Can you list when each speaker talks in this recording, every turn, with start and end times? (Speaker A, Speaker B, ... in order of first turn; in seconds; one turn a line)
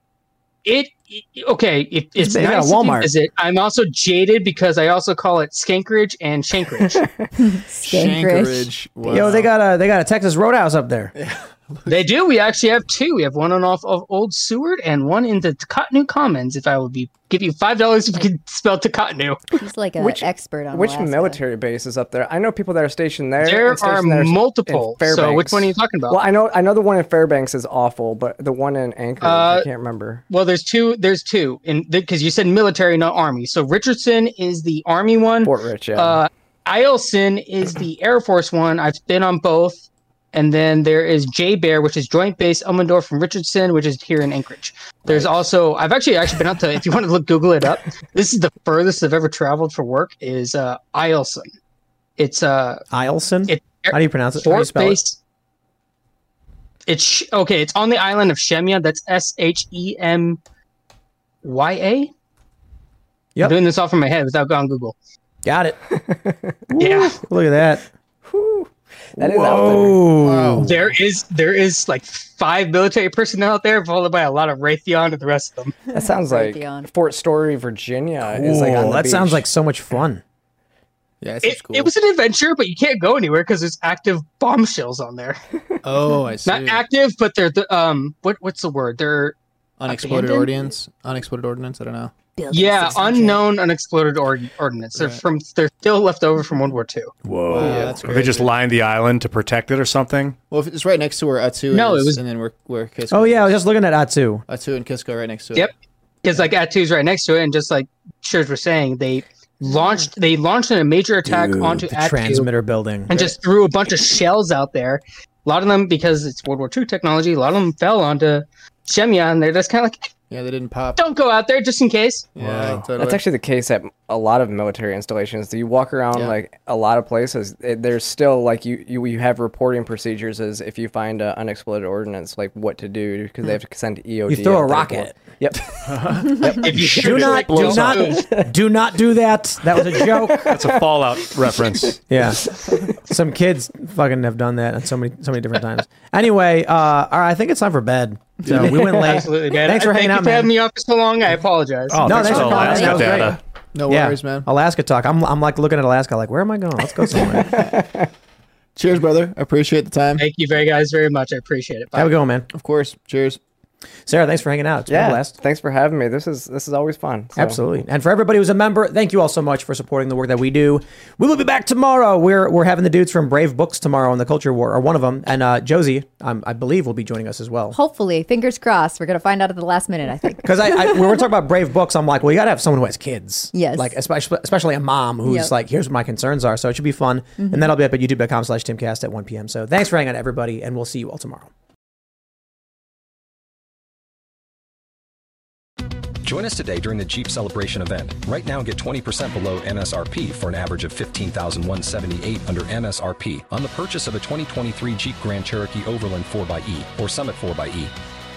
Speaker A: 0.6-7.0
Speaker B: 2.2-3.1
Speaker C: 7.0-7.3
Speaker D: 7.4-8.7
Speaker E: 7.8-9.5
Speaker B: 9.1-11.1
Speaker E: 11.2-11.9
Speaker A: 11.9-19.4
Speaker D: 19.6-21.4
Speaker C: 20.0-30.2
Speaker A: 23.4-26.2
Speaker A: 29.2-29.7
Speaker A: 30.3-51.5
Speaker C: 35.4-36.2
Speaker C: 45.0-45.5
Speaker A: 52.2-52.8
Speaker B: 52.9-55.0
Speaker A: 53.5-55.2
Speaker A: 56.9-60.4
Speaker A: 61.4-62.1
Speaker A: 63.4-64.9
Speaker B: 65.4-65.8
Speaker C: 65.9-66.6
Speaker B: 66.7-67.8
Speaker A: 66.8-67.2
Speaker C: 68.2-70.1
Speaker B: 69.2-70.7
Speaker E: 70.2-70.9
Speaker A: 70.6-75.8
Speaker C: 75.9-79.4
Speaker D: 75.9-76.9
Speaker B: 78.2-80.2
Speaker E: 81.2-81.9
Speaker A: 81.4-85.4
Speaker E: 85.8-86.8
Speaker A: 86.4-89.3
Speaker E: 89.8-92.1
Speaker D: 89.9-90.5
Speaker A: 90.0-90.5
Speaker D: 92.4-93.4
Speaker A: 92.5-97.8
Speaker E: 94.9-95.2
Speaker B: 97.2-97.9
Speaker E: 97.5-98.5
Speaker F: 98.0-100.4
Speaker E: 100.5-103.6
Speaker A: 101.7-102.2
Speaker B: 103.1-104.4
Speaker E: 104.5-105.7
Speaker A: 106.2-112.5
Speaker B: 111.2-113.3
Speaker A: 113.1-120.1
Speaker E: 120.3-121.0
Speaker A: 121.0-122.3
Speaker E: 122.3-123.2
Speaker F: 122.4-122.9
Speaker C: 123.0-138.5
Speaker B: 134.3-135.2
Speaker F: 135.9-136.3
Speaker A: 136.3-138.3
Speaker B: 136.8-140.5
Speaker C: 139.7-142.9
Speaker F: 140.5-142.0
Speaker B: 142.1-150.5
Speaker A: 148.5-152.9
Speaker F: 151.9-153.4
Speaker B: 152.0-157.5
Speaker D: 152.1-153.2
Speaker E: 153.7-154.5
Speaker C: 157.2-158.1
Speaker E: 158.8-160.2
Speaker A: 160.2-162.2
Speaker B: 161.9-162.5
Speaker E: 162.5-163.4
Speaker B: 164.1-165.3
Speaker C: 164.9-167.6
Speaker B: 167.3-177.8
Speaker D: 177.7-181.2
Speaker B: 180.4-191.5
Speaker D: 183.5-184.0
Speaker D: 185.2-185.5
Speaker D: 187.4-187.7
Speaker G: 196.2-207.9